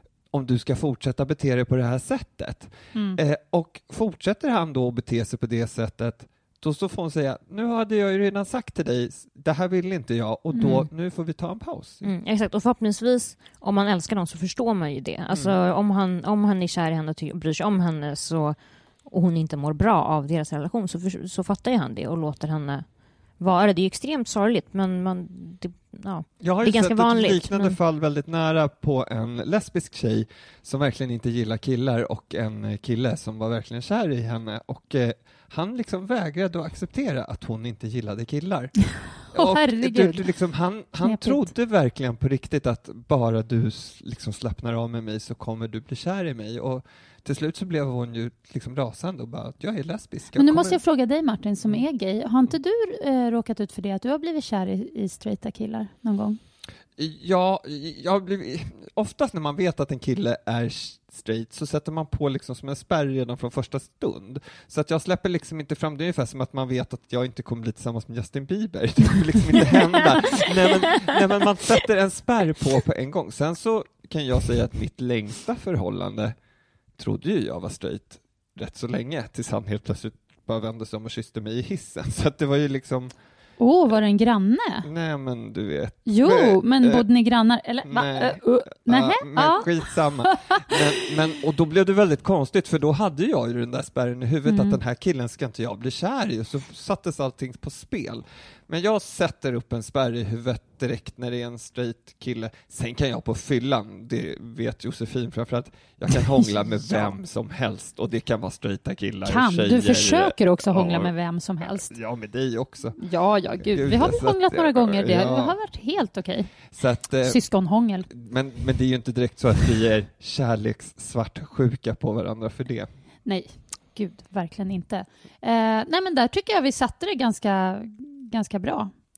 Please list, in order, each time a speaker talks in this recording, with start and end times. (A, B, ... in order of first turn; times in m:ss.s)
0:00.3-0:12.1 A
0:10.6-0:10.9 B
0:12.0-0:22.8 B
0:23.4-0:27.8 B
0:26.4-0:50.8 A
0:39.2-0:40.2 C
0:41.0-0:41.5 C
0:50.4-0:56.4 C
0:57.0-1:16.3 A
1:17.0-1:23.1 A
1:23.6-1:24.9 C
1:24.8-1:27.1 A
1:26.1-1:30.3 C
1:27.8-1:53.0 A
1:34.5-1:34.8 C
1:46.8-1:47.1 C
1:49.2-1:51.9 C
1:53.0-1:58.1 C
1:53.6-1:55.6 A
1:56.7-1:57.4 A
1:58.1-2:02.9 A
2:03.2-2:08.9 C